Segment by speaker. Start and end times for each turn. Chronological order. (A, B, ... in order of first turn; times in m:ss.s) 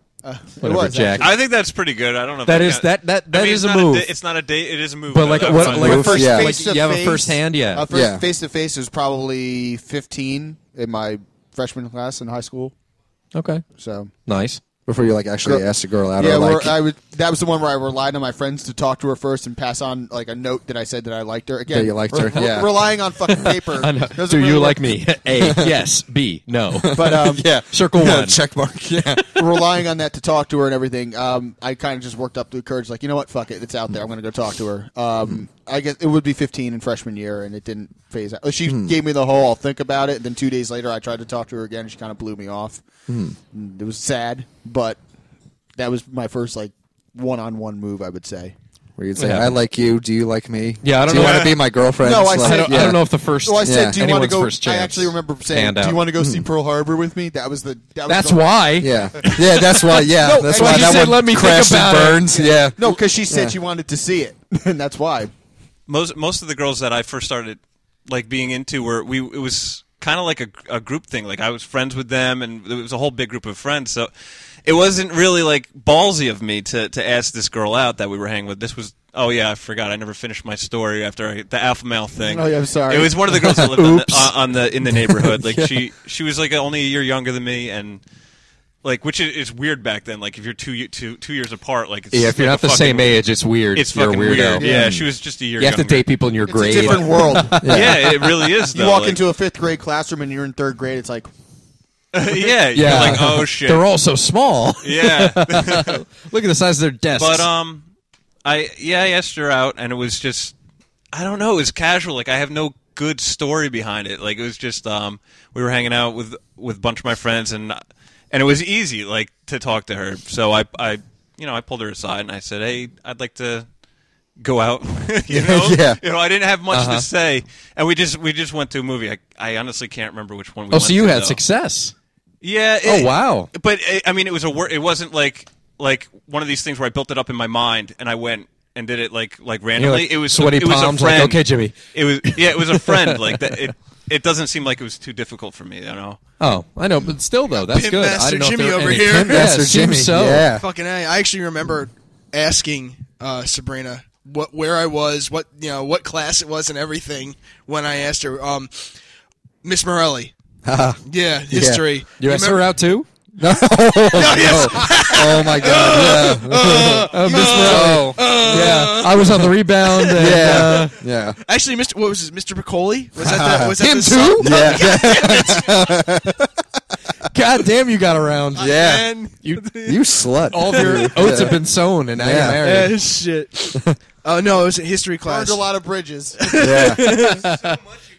0:00.2-0:01.4 A
0:00.6-0:01.4 B
0:01.2-0:06.2 C
0:02.4-0:04.1 B
0:05.1-0:07.9 B
0:05.6-0:12.7 A
0:05.7-0:06.6 D
0:07.9-0:08.2 D
0:13.3-0:13.6 B
0:13.8-0:14.1 A
0:14.2-0:14.6 B
0:14.9-0:16.8 D
0:16.2-0:24.9 A
0:21.7-0:22.8 D
0:23.4-0:28.4 B
0:25.3-0:25.8 D
0:26.7-0:29.4 D
0:26.9-0:27.5 A
0:29.4-0:42.8 A
0:38.7-0:38.9 D
0:43.1-0:43.4 D
0:43.5-0:45.0 A
0:45.8-0:48.5 A
0:49.0-0:53.1 D
0:49.2-0:49.6 B
0:50.8-0:51.6 B
0:51.1-0:51.5 C
0:52.0-0:58.5 A
0:52.3-0:56.1 B
0:53.6-0:54.0 D
0:56.2-0:56.5 D
0:58.1-1:02.4 B
0:58.8-1:03.6 D
1:00.4-1:01.2 A
1:02.4-1:05.3 A
1:05.9-1:14.1 C
1:14.6-1:28.0 C
1:22.2-1:23.3 A
1:23.3-1:24.3 B
1:25.5-1:25.7 D
1:28.8-1:36.1 C
1:32.1-1:35.0 B
1:34.6-1:35.0 D
1:35.6-1:38.5 B
1:36.5-1:37.7 A
1:36.6-1:39.2 C
1:37.6-1:38.1 D
1:38.7-1:41.3 A
1:42.1-1:43.9 C
1:42.7-1:47.5 B
1:44.8-1:46.0 C
1:47.2-1:47.8 C
1:48.4-1:50.5 C
1:51.1-2:03.7 C
2:04.4-2:11.4 C
2:05.3-2:06.0 D
2:06.7-2:07.1 B
2:10.7-2:11.9 B
2:12.4-2:26.2 C
2:12.8-2:13.5 B
2:19.8-2:23.7 B
2:26.4-2:30.4 B
2:27.6-2:29.6 E
2:28.9-2:30.6 D
2:30.4-2:38.9 E
2:39.6-2:40.3 E
2:40.6-2:41.8 D
2:41.0-2:42.7 E
2:42.2-2:43.1 B
2:43.4-2:48.5 D
2:44.1-2:50.9 E
2:46.5-2:50.9 B
2:50.1-2:51.4 D
2:51.4-2:56.0 E
2:53.2-2:53.8 D
2:53.8-2:54.7 B
2:54.3-2:56.5 D
2:57.3-2:58.8 B
2:58.6-2:59.1 D
2:58.6-3:01.5 E
2:59.4-2:59.7 B
2:59.8-3:01.6 D
3:00.5-3:02.9 B
3:02.2-3:02.7 D
3:02.4-3:05.7 E
3:05.2-3:06.5 A
3:06.4-3:07.6 E
3:06.6-3:07.3 D
3:07.3-3:07.8 B